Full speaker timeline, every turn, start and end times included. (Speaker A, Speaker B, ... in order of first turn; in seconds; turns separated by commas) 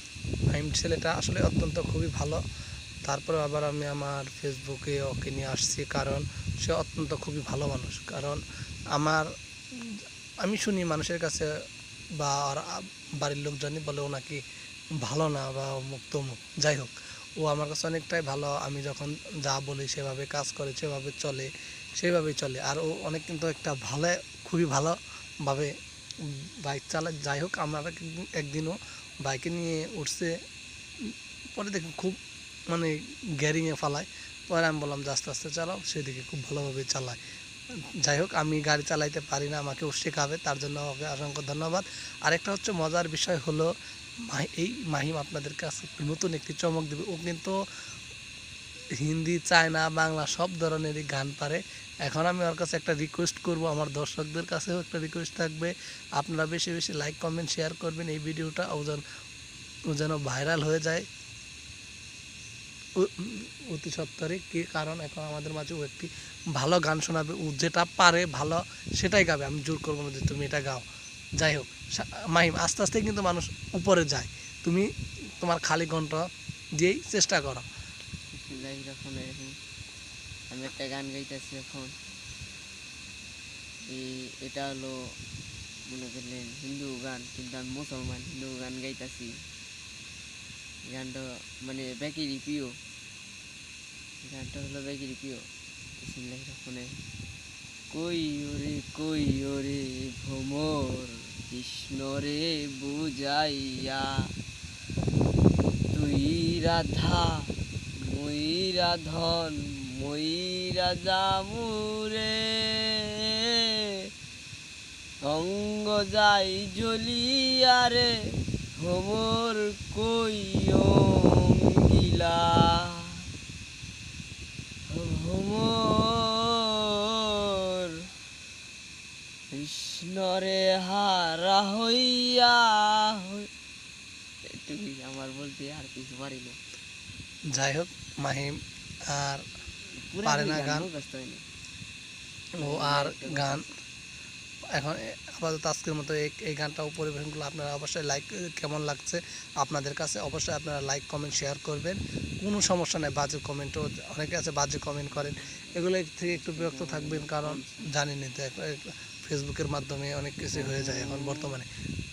Speaker A: 0.5-2.4, Speaker A: 3.0-8.4, Speaker A: 8.9-11.5, Speaker A: 12.2-14.4, Speaker A: 15.0-25.7, Speaker A: 26.6-30.3, Speaker A: 31.0-32.2, Speaker A: 32.7-37.2, Speaker A: 38.0-43.7, Speaker A: 44.3-47.5, Speaker A: 49.0-59.0, Speaker A: 59.9-61.0, Speaker A: 63.0-70.8, Speaker A: 71.4-74.9, Speaker A: 75.4-76.2, Speaker A: 76.8-77.6, Speaker B: 78.3-79.6, Speaker B: 80.5-81.9, Speaker B: 83.9-85.2, Speaker B: 85.9-89.5, Speaker B: 90.8-92.8, Speaker B: 94.2-95.5, Speaker B: 96.0-97.0, Speaker B: 97.9-104.3, Speaker B: 105.9-114.0, Speaker B: 115.2-123.2, Speaker B: 124.9-128.1, Speaker B: 129.5-133.5, Speaker B: 134.5-136.6, Speaker A: 137.5-139.4, Speaker B: 139.9-141.4, Speaker A: 140.2-140.8, Speaker B: 142.6-143.7, Speaker A: 142.6-143.7, Speaker A: 144.7-161.7, Speaker B: 155.1-157.9, Speaker B: 160.5-161.6